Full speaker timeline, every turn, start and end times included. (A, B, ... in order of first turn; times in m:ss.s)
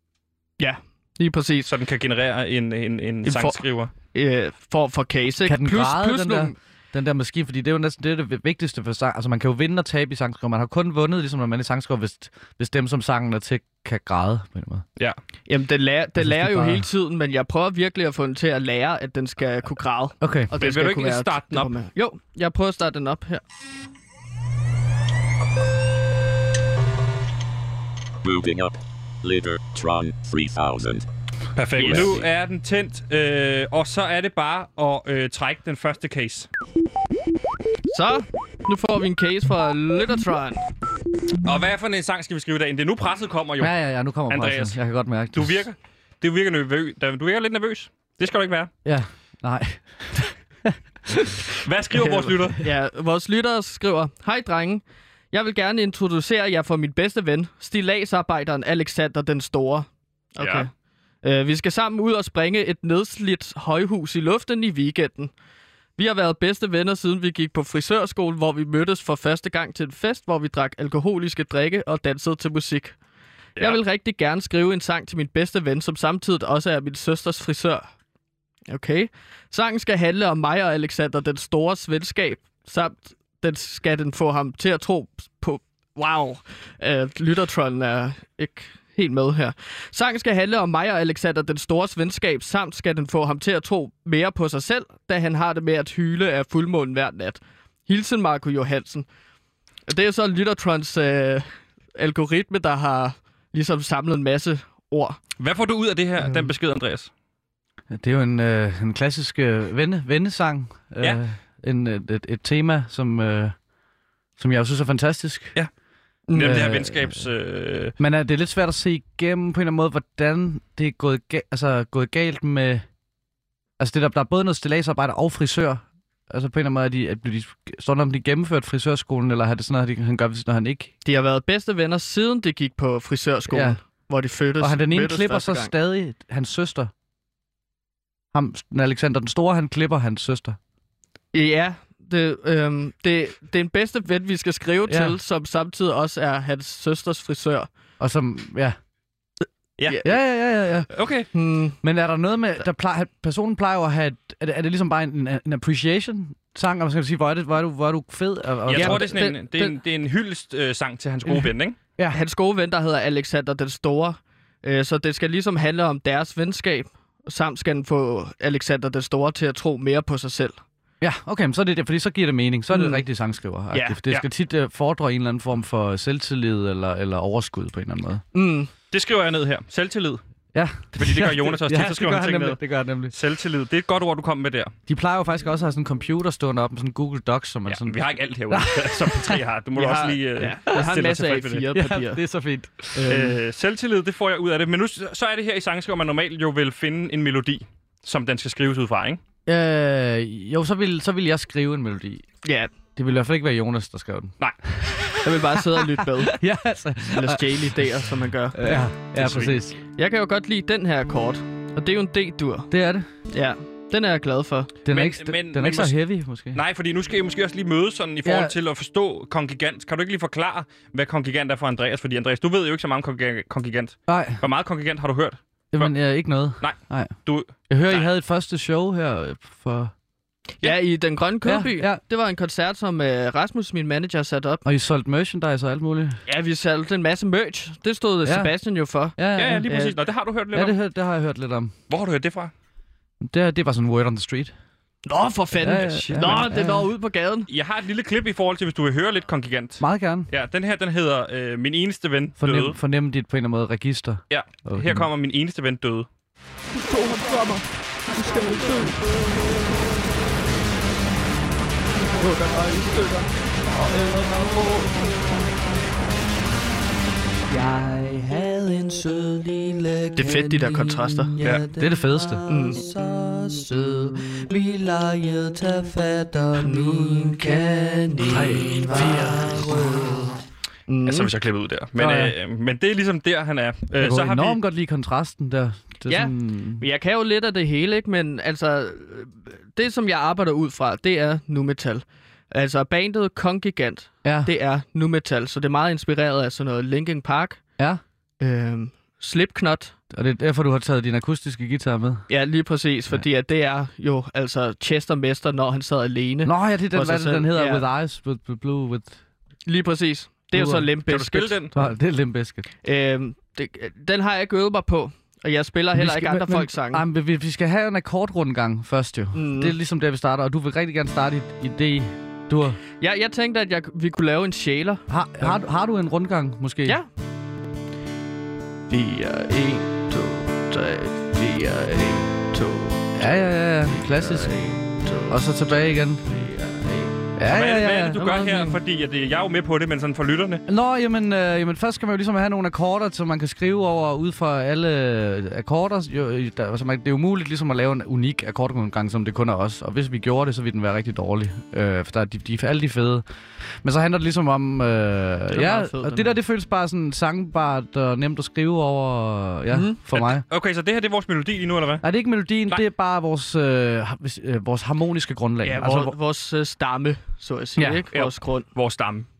0:00.6-0:01.7 A
0:01.7-0:03.9 B
0:03.2-0:03.6 A
0:04.1-0:06.5 A
0:05.4-0:14.8 C
0:15.5-0:23.4 A
0:16.2-0:16.9 C
0:20.2-0:20.5 C
0:20.6-0:21.7 B
0:28.2-0:31.1 D
0:31.5-0:36.5 B
0:31.8-0:32.2 D
0:31.8-0:32.1 A
0:37.9-0:40.6 A
0:41.4-0:43.7 B
0:43.6-0:45.6 C
0:44.3-0:44.8 B
0:45.3-0:48.7 B
0:48.8-0:51.3 C
0:51.6-0:52.6 B
0:52.0-1:00.7 A
1:00.4-1:00.7 B
1:01.2-1:05.3 A
1:06.0-1:13.0 A
1:13.6-1:17.8 A
1:18.7-1:39.1 A
1:39.9-1:45.2 A
1:45.4-1:47.1 B
1:47.9-1:53.6 C
1:54.4-1:55.5 C
1:56.3-1:56.7 A
1:56.3-1:57.9 B
1:56.4-1:57.2 C
1:58.0-2:02.8 C
2:03.8-2:10.9 C
2:11.0-2:15.7 A
2:13.5-2:13.8 C
2:14.6-2:16.9 C
2:18.3-2:20.6 C
2:21.3-2:27.7 A
2:24.9-2:25.2 C
2:28.0-2:28.8 C
2:29.8-2:30.0 B
2:30.0-2:30.9 C
2:30.9-2:31.3 B
2:31.3-2:31.8 A
2:31.8-2:39.0 C
2:38.7-2:41.8 B
2:38.7-2:39.7 A
2:41.2-2:42.2 C
2:42.1-2:50.6 A
2:51.0-2:58.2 C
2:52.7-2:53.0 A
2:53.7-2:54.0 A
2:58.3-2:58.7 A
2:58.9-3:00.2 B
3:00.5-3:03.1 C
3:00.9-3:02.6 B
3:03.1-3:04.7 B
3:04.9-3:09.4 C
3:07.7-3:11.6 B
3:09.8-3:12.2 A
3:11.7-3:13.1 C
3:12.9-3:13.4 A
3:13.0-3:19.2 B
3:19.4-3:22.2 C
3:22.4-3:22.7 A
3:23.0-3:29.8 C
3:25.2-3:26.4 A
3:27.1-3:28.7 A
3:29.2-3:29.6 B
3:29.9-3:32.7 A
3:32.7-3:33.1 C
3:33.3-3:34.8 A
3:34.8-3:36.6 C
3:34.9-3:36.0 B
3:36.5-3:45.9 B
3:38.2-3:38.5 C
3:44.1-3:44.4 C
3:45.7-3:47.2 C
3:46.6-3:48.1 B
3:47.7-3:49.9 C
3:50.6-3:54.6 A
3:51.4-3:52.0 C
3:54.6-3:56.2 C
3:56.3-4:00.0 A
3:58.2-3:58.5 C
3:59.2-3:59.7 C
3:59.4-4:00.7 B
4:00.5-4:01.7 C
4:01.9-4:02.5 B
4:03.2-4:04.5 C
4:05.0-4:07.5 A
4:05.6-4:06.9 C
4:06.0-4:06.4 B
4:07.5-4:12.8 B
4:09.8-4:10.3 C
4:12.4-4:15.1 C
4:14.3-4:16.1 B
4:16.8-4:17.6 A
4:18.2-4:18.9 A
4:22.2-4:23.2 A
4:23.7-4:24.6 C
4:27.5-4:40.2 E
4:30.1-4:31.4 A
4:31.4-4:31.7 B
4:31.7-4:32.5 C
4:32.4-4:32.9 A
4:36.5-4:40.3 A
4:38.3-4:39.6 C
4:40.9-4:41.3 A
4:41.0-4:44.6 B
4:42.0-4:42.3 C
4:44.0-4:46.8 C
4:46.1-4:57.6 A
4:54.2-4:54.5 C
4:58.4-4:59.9 A
5:00.1-5:02.2 C
5:02.3-5:07.8 A
5:06.4-5:09.2 C
5:09.6-5:11.6 A
5:10.5-5:10.9 C
5:11.0-5:11.7 B
5:11.7-5:12.7 C
5:12.8-5:17.0 A
5:15.9-5:22.8 C
5:19.3-5:19.7 A
5:23.0-5:25.6 A
5:25.1-5:27.0 C
5:28.9-5:35.4 A
5:33.2-5:34.5 C
5:35.3-5:36.2 C
5:36.2-5:37.2 A
5:37.4-5:38.8 C
5:37.5-5:40.6 B
5:40.7-5:53.2 C
5:53.8-6:00.4 C
5:55.5-5:56.4 A
5:59.7-6:00.0 A
6:00.1-6:02.0 B
6:02.0-6:06.1 C
6:05.6-6:08.7 A
6:07.8-6:08.0 C
6:08.1-6:09.2 B